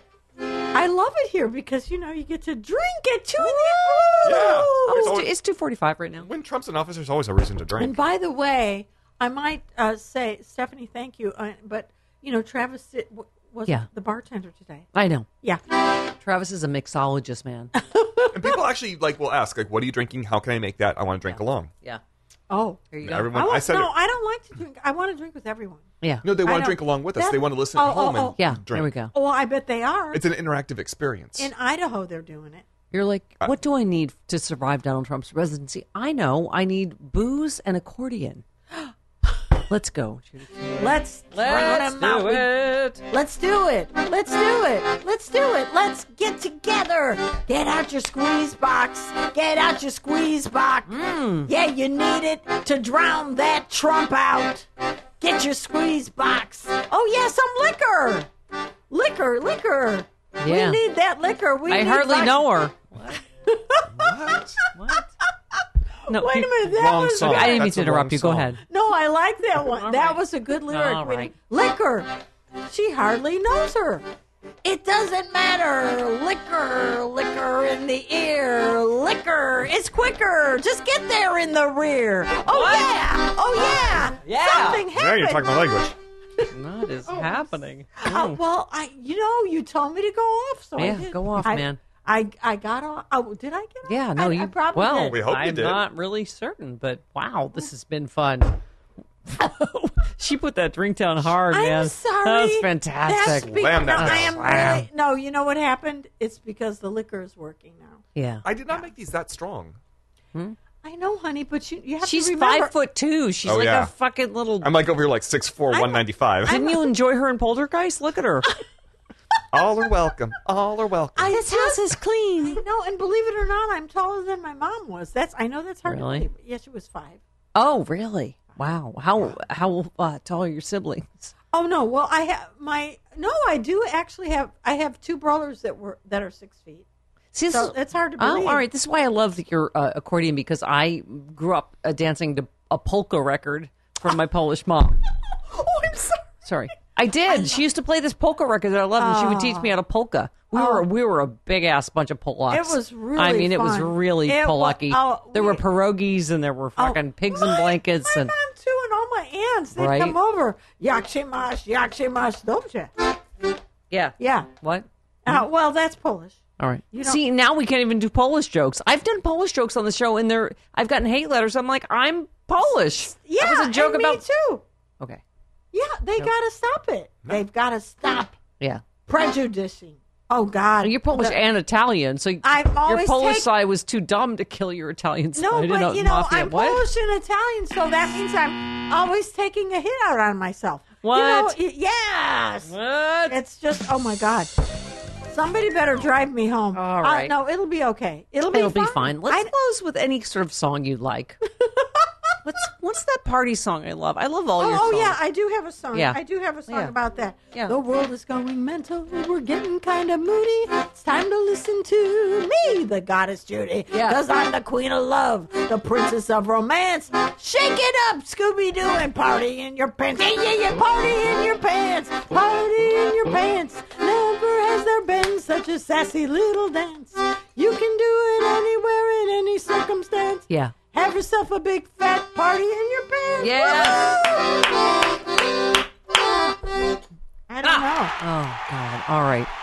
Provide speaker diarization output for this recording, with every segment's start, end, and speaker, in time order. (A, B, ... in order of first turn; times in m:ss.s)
0:00.7-0:05.2 A
0:03.4-0:04.2 B
0:04.2-0:05.3 C
0:04.8-0:06.3 B
0:06.2-0:08.0 C
0:07.8-0:14.9 A
0:14.9-0:15.2 B
0:16.2-0:17.7 B
0:17.8-0:18.6 A
0:18.3-0:21.7 C
0:21.3-0:22.0 B
0:22.5-0:25.9 A
0:22.9-0:23.4 B
0:23.0-0:23.9 C
0:26.2-0:28.9 C
0:26.4-0:28.5 A
0:28.4-0:29.1 B
0:29.1-0:30.2 A
0:30.1-0:31.5 C
0:31.4-0:32.6 A
0:32.9-0:38.4 B
0:39.7-0:43.0 B
0:40.7-0:42.5 A
0:43.0-0:54.7 A
0:50.9-0:51.5 B
0:55.2-0:58.3 A
0:58.9-1:02.5 A
1:00.4-1:00.8 B
1:01.7-1:03.2 B
1:03.4-1:03.9 A
1:03.9-1:04.6 C
1:04.7-1:05.1 B
1:06.1-1:07.7 A
1:06.1-1:08.6 B
1:06.6-1:08.6 C
1:08.7-1:12.1 A
1:09.7-1:11.3 B
1:12.6-1:14.0 A
1:14.6-1:25.8 A
1:22.5-1:22.9 B
1:24.2-1:24.8 B
1:24.9-1:25.9 C
1:26.5-1:28.4 B
1:27.0-1:35.2 A
1:30.8-1:31.8 B
1:33.8-1:38.6 B
1:35.1-1:35.8 C
1:39.3-1:44.8 B
1:41.5-1:48.0 A
1:43.2-1:44.7 C
1:48.1-1:48.4 B
1:48.4-1:49.8 C
1:50.8-1:52.7 A
1:52.0-1:54.7 B
1:53.4-1:53.9 C
1:54.6-1:56.6 C
1:55.7-1:56.9 A
1:56.5-1:58.5 B
1:59.5-2:01.3 C
2:01.2-2:07.2 A
2:01.3-2:02.6 B
2:05.8-2:06.3 B
2:07.5-2:11.3 B
2:11.5-2:16.8 A
2:17.3-2:25.0 B
2:17.5-2:18.6 A
2:25.5-2:26.2 A
2:26.4-2:38.3 B
2:27.3-2:27.6 A
2:29.0-2:29.7 A
2:30.5-2:30.8 A
2:32.5-2:35.6 A
2:36.8-2:43.2 A
2:39.8-2:40.2 B
2:43.9-2:45.4 B
2:44.2-2:44.5 A
2:45.2-2:46.4 A
2:46.6-2:54.2 B
2:46.9-2:47.2 A
2:53.1-2:54.6 A
2:55.7-2:58.4 A
2:59.1-3:01.4 A
3:00.8-3:06.8 B
3:02.4-3:03.5 A
3:05.4-3:12.7 A
3:11.0-3:11.6 B
3:12.6-3:13.4 B
3:13.3-3:14.5 A
3:15.2-3:19.5 A
3:16.7-3:17.3 B
3:18.5-3:21.4 B
3:21.6-3:22.0 A
3:22.4-3:25.2 B
3:24.6-3:54.7 A
3:25.9-3:26.9 B
3:33.9-3:34.2 B
3:50.5-3:50.7 B
3:53.4-3:54.2 B
3:57.5-3:58.1 A
3:57.6-3:59.5 B